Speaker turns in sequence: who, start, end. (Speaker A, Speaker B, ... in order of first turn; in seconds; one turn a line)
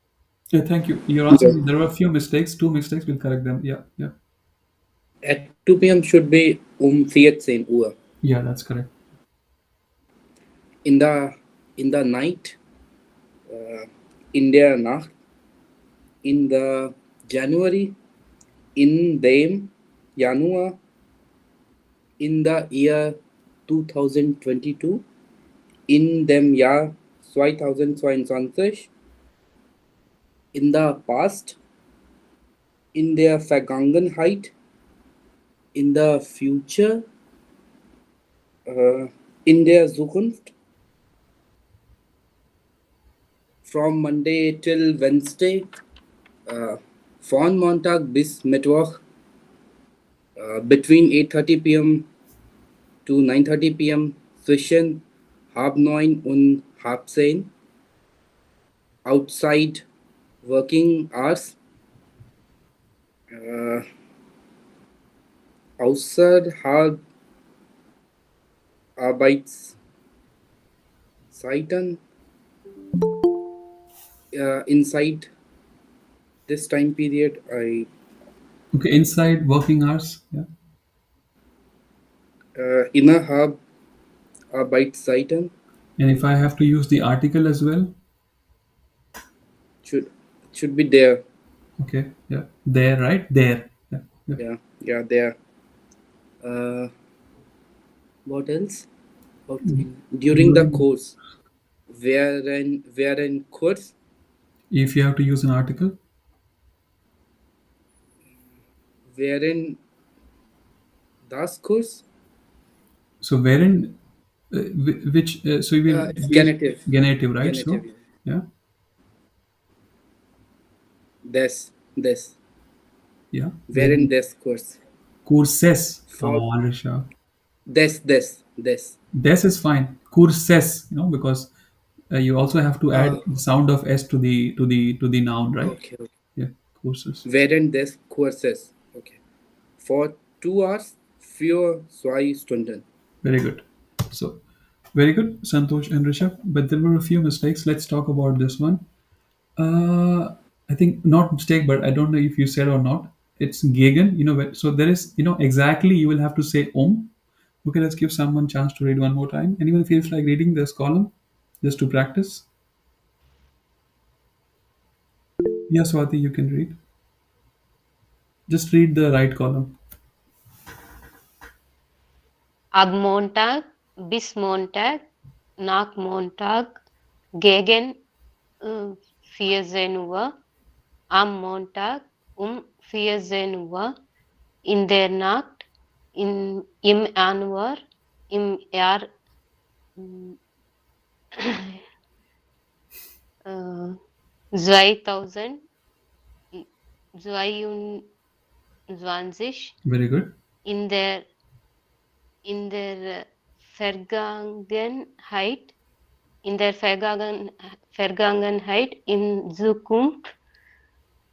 Speaker A: 0.5-4.1
Speaker B: 5.2-7.9
Speaker A: 8.2-8.9
Speaker B: 10.8-12.6
Speaker B: 13.5-15.1
Speaker B: 16.2-18.0
Speaker B: 18.8-20.8
Speaker B: 22.2-23.2
Speaker B: 23.7-25.0
Speaker B: 25.9-28.9
Speaker B: 30.5-31.6
Speaker B: 33.0-34.5
Speaker B: 35.8-37.1
Speaker B: 38.7-40.5
Speaker B: 43.6-45.7
Speaker B: 46.5-49.0
Speaker B: 50.4-52.1
Speaker B: 53.1-57.5
Speaker B: 59.1-59.9
Speaker B: 60.4-61.6
Speaker B: 63.3-63.8
Speaker B: 65.8-67.0
Speaker B: 69.0-69.8
Speaker B: 71.3-72.0
Speaker B: 74.3-75.3
Speaker B: 76.5-77.9
Speaker A: 78.7-80.5
Speaker B: 82.6-83.6
Speaker B: 84.5-85.5
Speaker A: 86.0-88.0
Speaker B: 89.8-91.2
Speaker A: 91.8-94.4
Speaker B: 94.4-95.3
Speaker B: 96.4-96.9
Speaker B: 98.3-98.9
Speaker B: 99.5-101.2
Speaker A: 99.7-100.8
Speaker B: 101.9-103.9
Speaker A: 104.7-106.0
Speaker B: 109.1-109.8
Speaker B: 111.3-112.0
Speaker A: 113.2-114.0
Speaker A: 114.5-118.5
Speaker B: 115.9-116.9
Speaker B: 117.4-117.9
Speaker B: 121.2-122.4
Speaker A: 123.3-124.1
Speaker B: 123.7-124.8
Speaker A: 125.2-127.1
Speaker B: 126.1-126.4
Speaker B: 127.7-128.9
Speaker A: 129.2-131.5
Speaker A: 132.1-135.8
Speaker B: 132.9-133.2
Speaker B: 135.6-136.1
Speaker A: 136.3-137.2
Speaker B: 137.2-139.2
Speaker B: 139.8-142.8
Speaker A: 143.2-144.4
Speaker A: 144.9-148.8
Speaker A: 149.6-162.5
Speaker A: 165.7-166.8
Speaker A: 168.5-169.8
Speaker C: 172.8-175.0
Speaker C: 175.6-176.8
Speaker C: 177.4-178.0
Speaker C: 178.7-180.3
Speaker C: 181.1-183.9
Speaker C: 184.7-185.6
Speaker C: 186.2-187.8
Speaker C: 188.3-189.1
Speaker C: 190.0-190.4
Speaker C: 191.4-191.8
Speaker C: 193.5-194.0
Speaker C: 194.6-195.6
Speaker C: 197.2-198.1
Speaker C: 198.9-199.7
Speaker A: 199.9-200.3
Speaker C: 200.7-201.2
Speaker C: 202.4-205.7
Speaker C: 206.4-210.2